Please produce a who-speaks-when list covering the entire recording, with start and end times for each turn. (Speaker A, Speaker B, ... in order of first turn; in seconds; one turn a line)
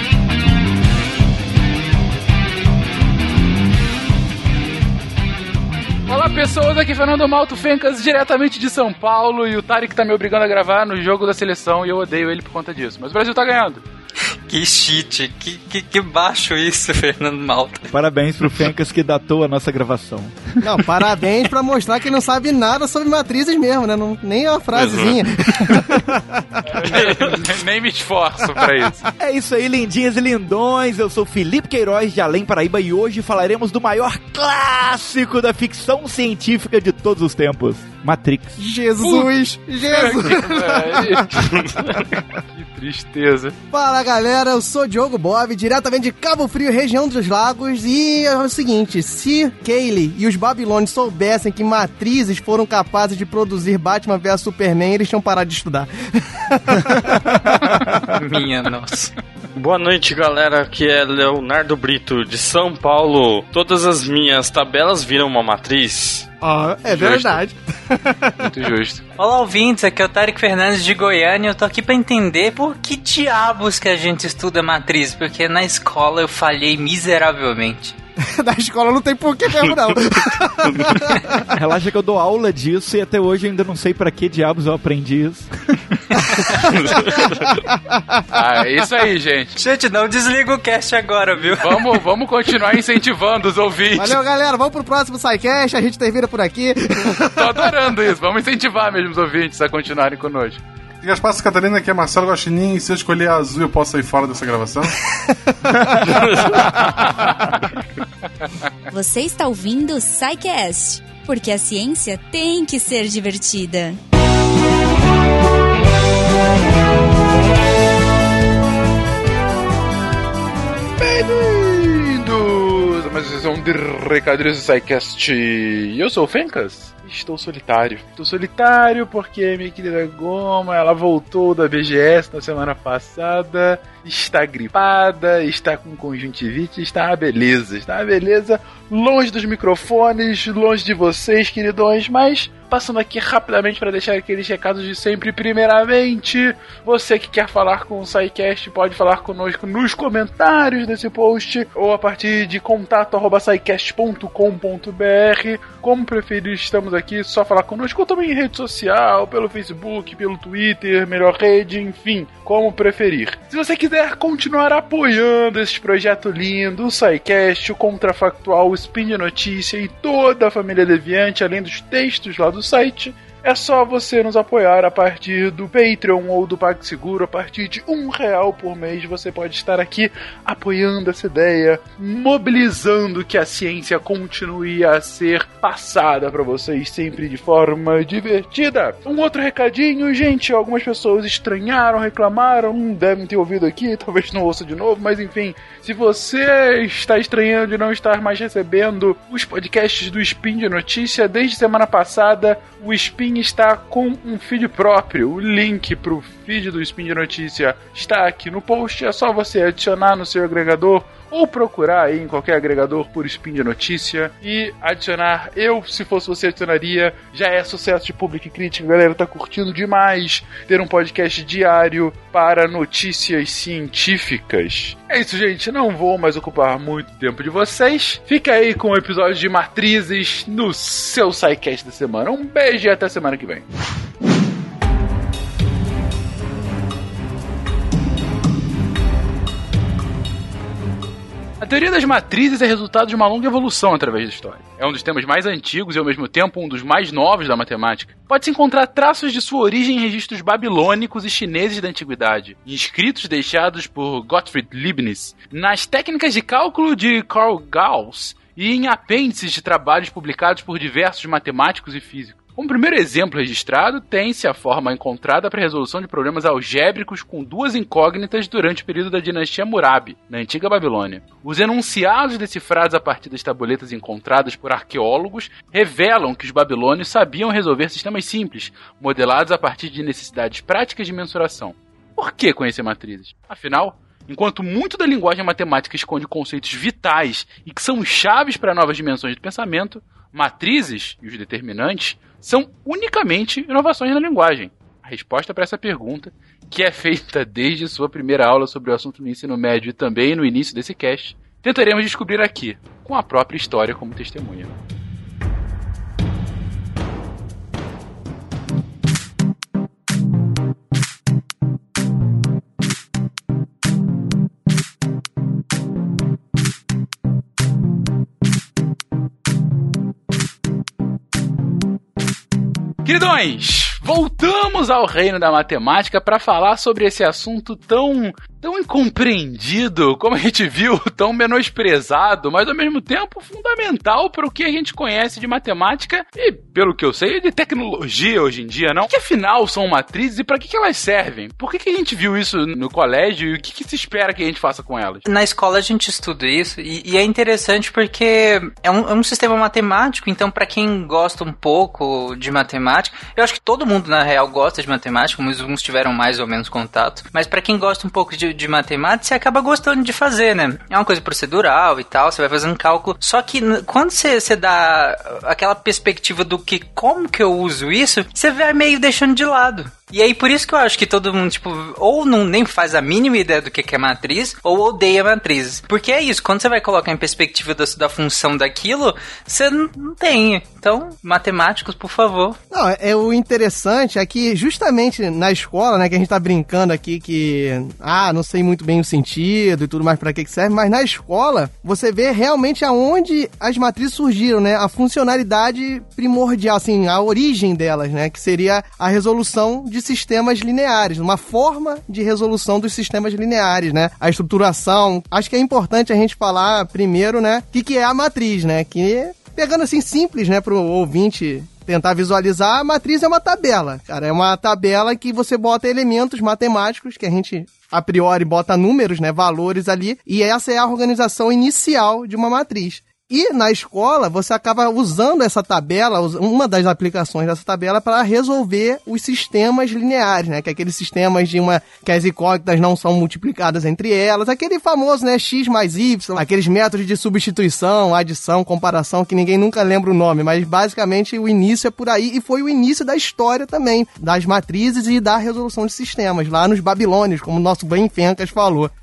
Speaker A: 6.1-13.8
Speaker B: 14.5-17.9
Speaker C: 17.9-20.7
Speaker D: 20.6-26.4
Speaker E: 24.7-25.7
Speaker A: 26.7-29.0
Speaker E: 26.8-27.4
Speaker C: 29.2-38.6
Speaker D: 38.6-41.4
Speaker A: 39.0-43.6
Speaker D: 43.7-58.0
Speaker B: 58.1-59.1
Speaker E: 59.5-66.3
Speaker D: 66.4-68.5
Speaker A: 66.9-67.4
Speaker A: 68.4-69.1
Speaker B: 69.2-78.0
Speaker D: 78.2-81.5
Speaker C: 81.5-87.0
Speaker D: 86.4-88.4
Speaker A: 88.3-89.6
Speaker B: 89.6-92.0
Speaker A: 91.6-94.2
Speaker D: 94.0-97.7
Speaker A: 97.2-100.6
Speaker F: 101.0-105.0
Speaker G: 108.9-114.0
Speaker A: 121.0-233.7
Speaker A: 241.6-304.8
Speaker A: 323.1-345.2
Speaker B: 345.3-382.6
Speaker D: 382.7-448.9